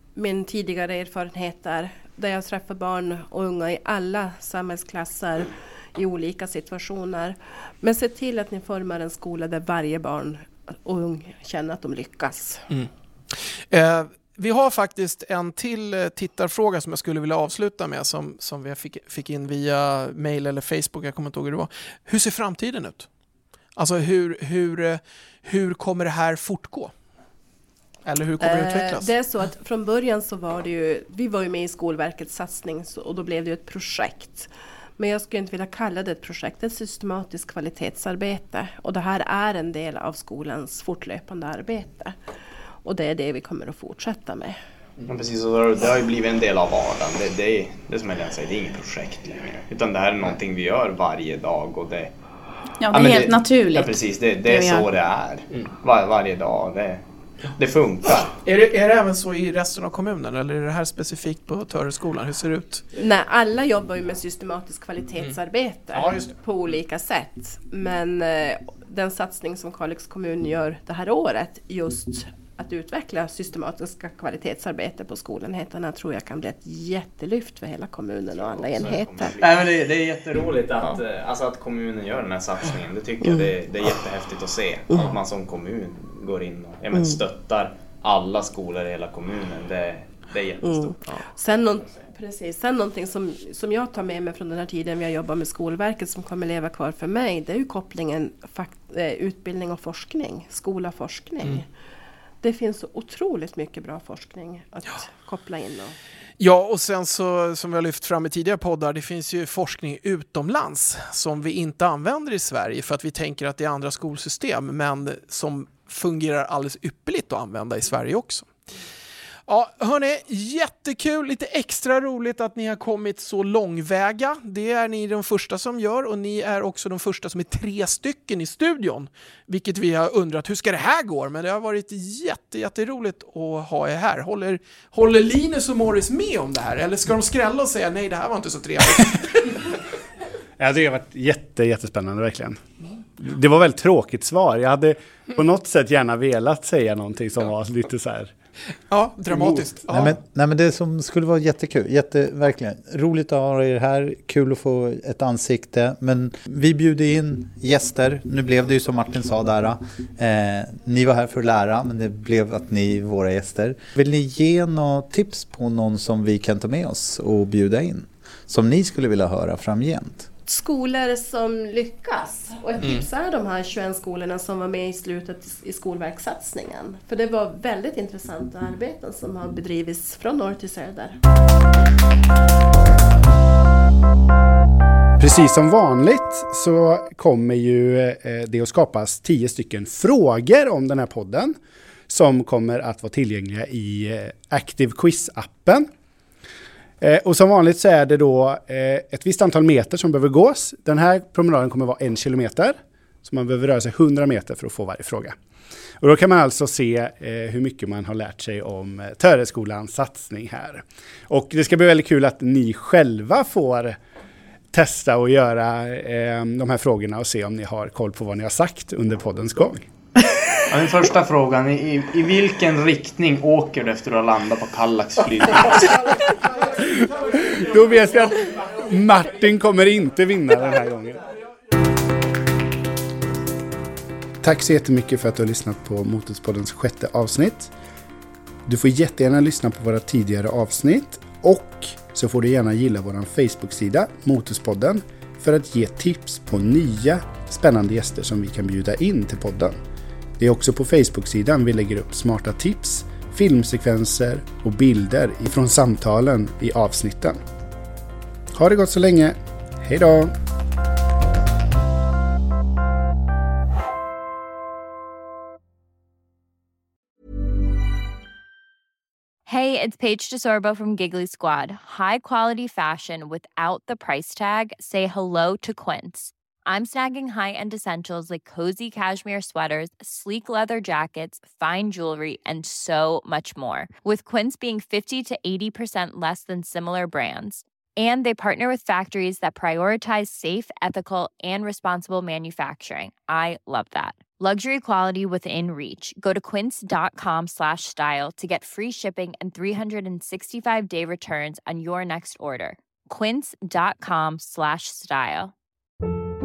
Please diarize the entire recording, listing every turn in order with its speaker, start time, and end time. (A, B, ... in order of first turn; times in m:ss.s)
0:00.1-0:12.6 A
0:12.7-0:23.1 B
0:23.8-0:26.9 B
0:28.0-0:29.1 B
0:28.4-0:42.1 A
0:42.8-0:44.6 A
0:45.0-0:52.1 C
0:52.8-0:54.8 D
0:52.9-0:57.0 C
0:57.5-0:58.3 C
0:58.2-1:02.8 B
1:03.0-1:19.6 A
1:05.9-1:06.3 B
1:18.4-1:32.1 C
1:23.2-1:23.5 A
1:30.6-1:41.7 A
1:42.4-1:45.9 A
1:46.4-1:58.5 B
1:59.5-2:19.6 B
2:20.6-2:22.6 E
2:23.2-2:28.3 E
2:28.9-2:30.2 B
2:29.3-2:30.0 E
2:29.9-2:50.3 F
2:50.5-3:01.2 A
3:05.2-3:11.6 E
3:12.1-3:15.9 E
3:17.0-3:25.4 E
3:26.0-3:34.0 E
3:34.7-3:39.9 E
3:40.7-3:46.2 C
3:46.8-3:51.2 E
3:54.4-3:57.7 E
3:58.6-4:09.8 E
4:10.4-4:17.4 E
4:18.5-4:20.3 E
4:29.4-5:05.5 G